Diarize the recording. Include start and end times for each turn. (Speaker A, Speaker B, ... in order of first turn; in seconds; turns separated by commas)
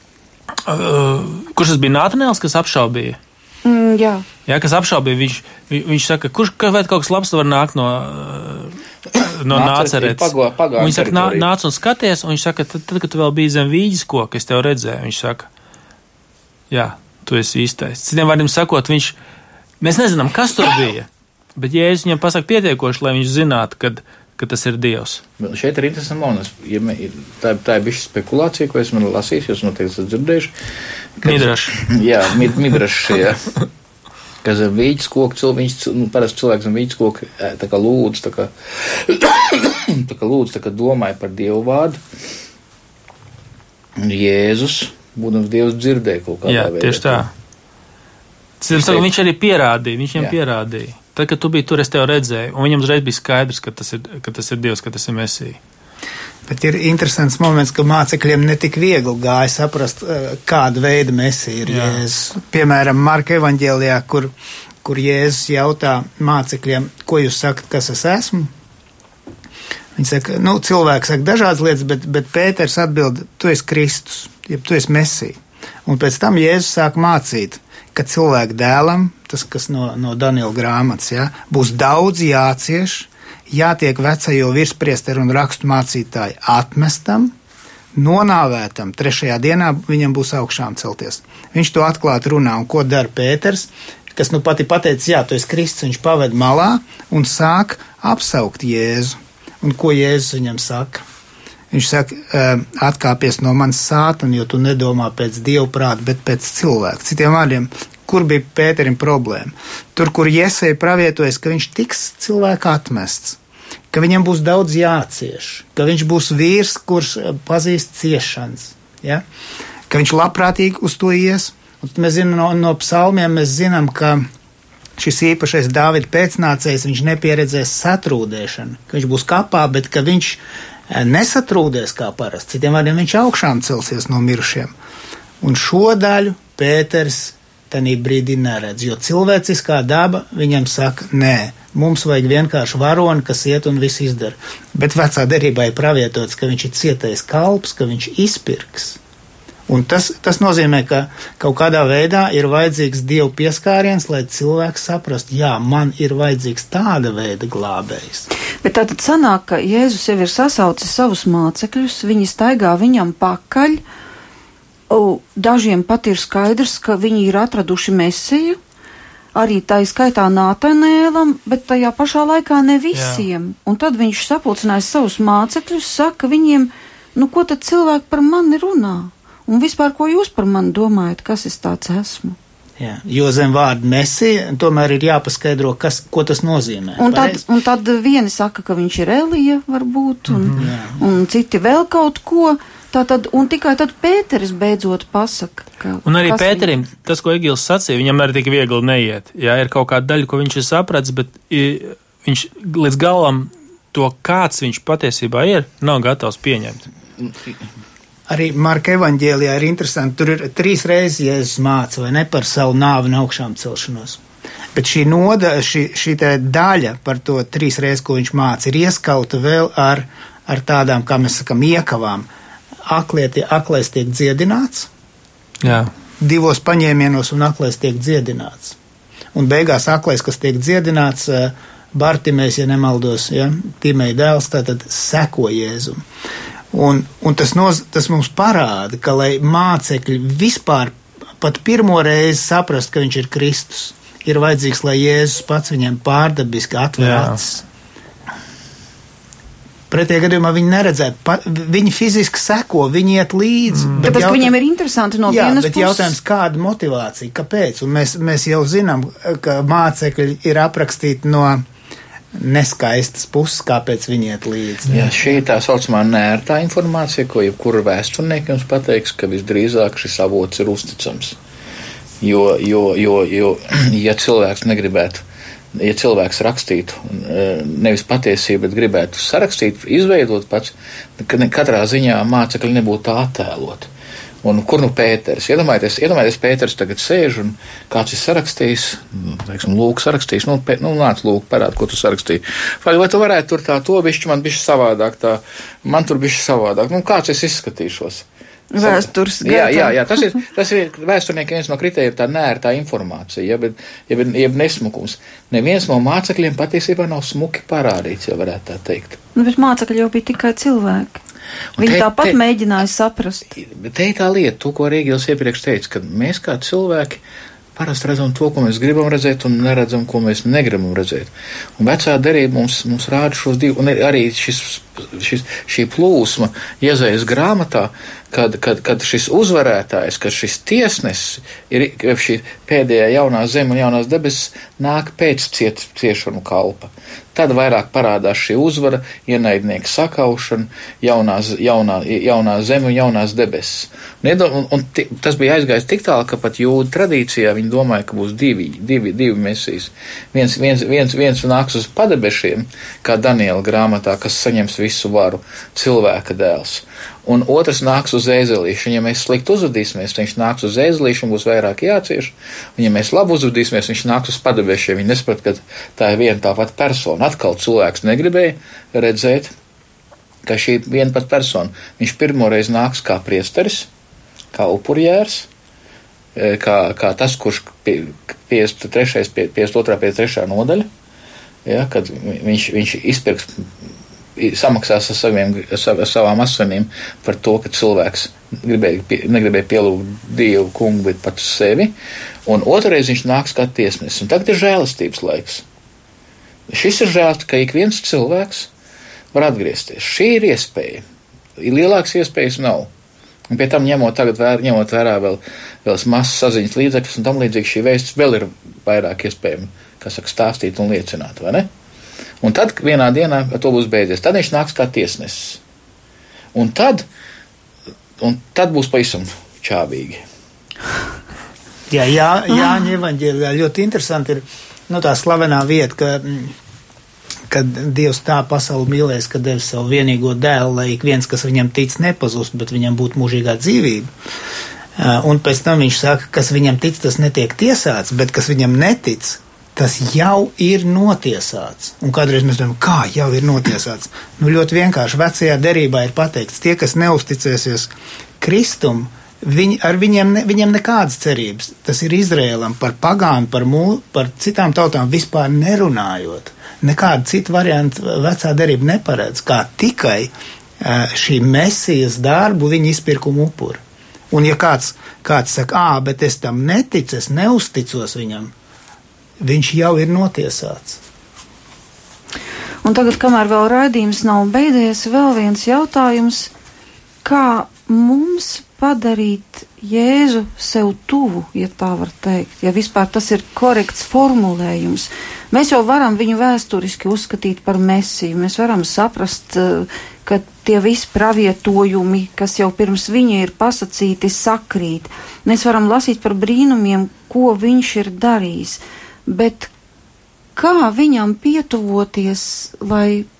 Speaker A: 0.7-3.2, Speaker B: 3.6-4.2, Speaker A: 4.5-15.5, Speaker C: 9.5-11.5, Speaker A: 16.7-19.1, Speaker A: 19.8-25.2, Speaker C: 25.4-30.5, Speaker C: 31.2-33.5, Speaker A: 31.2-31.8, Speaker C: 34.4-42.0, Speaker C: 44.0-47.3, Speaker A: 46.5-47.3, Speaker A: 48.6-55.6, Speaker C: 48.7-49.0, Speaker D: 56.5-64.3, Speaker A: 61.6-62.0, Speaker D: 64.8-68.5, Speaker D: 70.0-87.3, Speaker D: 87.9-101.0, Speaker D: 101.7-113.4, Speaker D: 113.9-119.2, Speaker D: 119.9-124.2, Speaker D: 125.0-134.7, Speaker D: 135.4-149.0, Speaker D: 149.7-158.3, Speaker B: 158.6-163.8, Speaker B: 164.9-168.6, Speaker B: 169.3-182.4, Speaker A: 172.9-173.2, Speaker D: 182.8-187.4, Speaker B: 187.0-196.7, Speaker A: 190.3-190.7, Speaker D: 190.6-191.0, Speaker A: 196.0-206.8, Speaker D: 208.3-214.2, Speaker D: 214.7-222.3, Speaker D: 222.8-224.9, Speaker A: 225.6-225.9, Speaker D: 226.2-228.8, Speaker D: 229.3-236.0, Speaker D: 236.7-247.6, Speaker A: 247.0-247.4, Speaker D: 249.9-254.5, Speaker A: 253.7-254.1, Speaker B: 254.0-256.2, Speaker D: 255.3-261.6, Speaker D: 262.3-265.1, Speaker C: 264.9-271.4, Speaker C: 272.2-275.2, Speaker C: 275.7-283.9, Speaker C: 284.4-298.2, Speaker B: 298.7-300.0, Speaker C: 298.8-309.2, Speaker B: 309.3-311.2, Speaker C: 311.8-312.4, Speaker B: 311.8-313.5, Speaker C: 313.6-317.2, Speaker C: 317.8-369.5, Speaker C: 370.4-373.9, Speaker C: 374.5-375.5, Speaker C: 376.3-380.9, Speaker C: 381.6-383.5, Speaker C: 384.4-391.9, Speaker C: 392.4-395.6, Speaker C: 396.7-398.7, Speaker C: 399.3-401.0, Speaker C: 401.6-402.9, Speaker C: 403.5-411.7, Speaker C: 412.4-415.6, Speaker C: 416.5-417.0, Speaker C: 418.2-420.2, Speaker D: 421.9-426.5, Speaker D: 427.5-434.1, Speaker D: 435.0-468.5, Speaker D: 469.4-471.0, Speaker B: 472.8-476.5, Speaker B: 477.2-499.7, Speaker B: 500.6-503.3